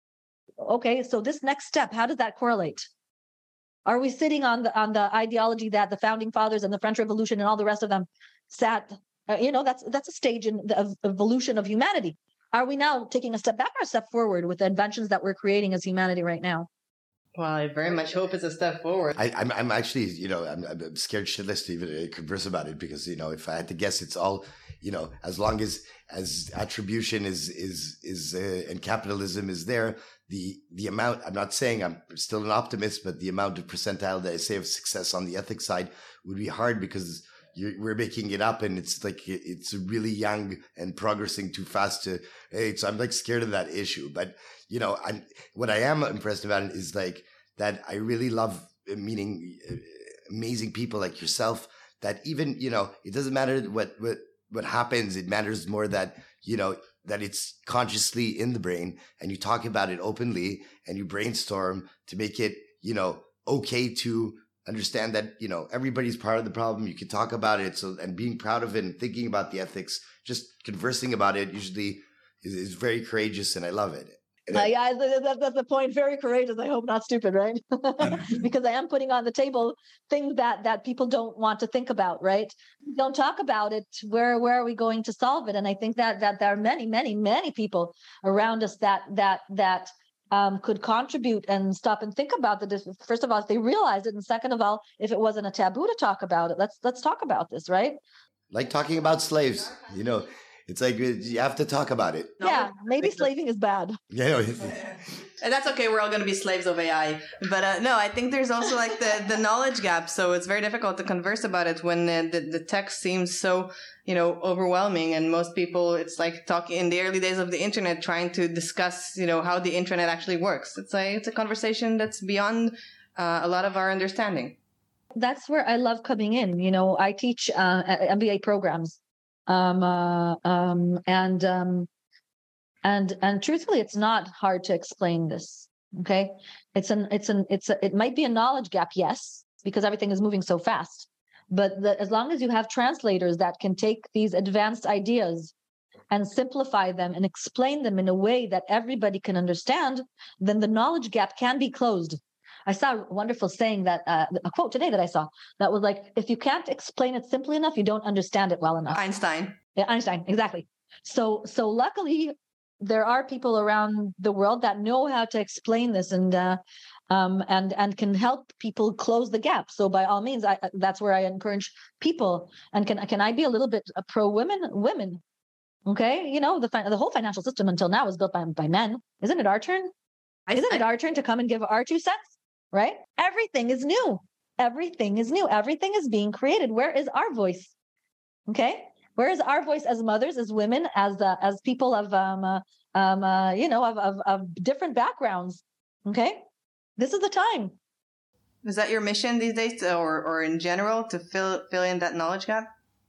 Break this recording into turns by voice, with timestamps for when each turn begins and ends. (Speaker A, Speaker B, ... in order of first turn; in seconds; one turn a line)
Speaker A: 0.6-2.9
Speaker A: 3.9-16.7
Speaker B: 17.4-19.1
Speaker C: 19.2-74.7
Speaker A: 74.5-98.0
Speaker C: 98.5-102.4
Speaker A: 102.4-104.0
Speaker C: 104.1-105.0
Speaker B: 105.4-124.6
Speaker A: 125.2-131.9
Speaker A: 132.8-145.5
Speaker A: 146.1-159.0
Speaker B: 158.9-159.6
Speaker A: 159.8-166.6
Speaker A: 167.1-175.2
Speaker A: 175.9-179.9
Speaker A: 180.5-187.7
Speaker A: 188.5-196.4
Speaker A: 197.0-197.8
Speaker B: 198.6-202.7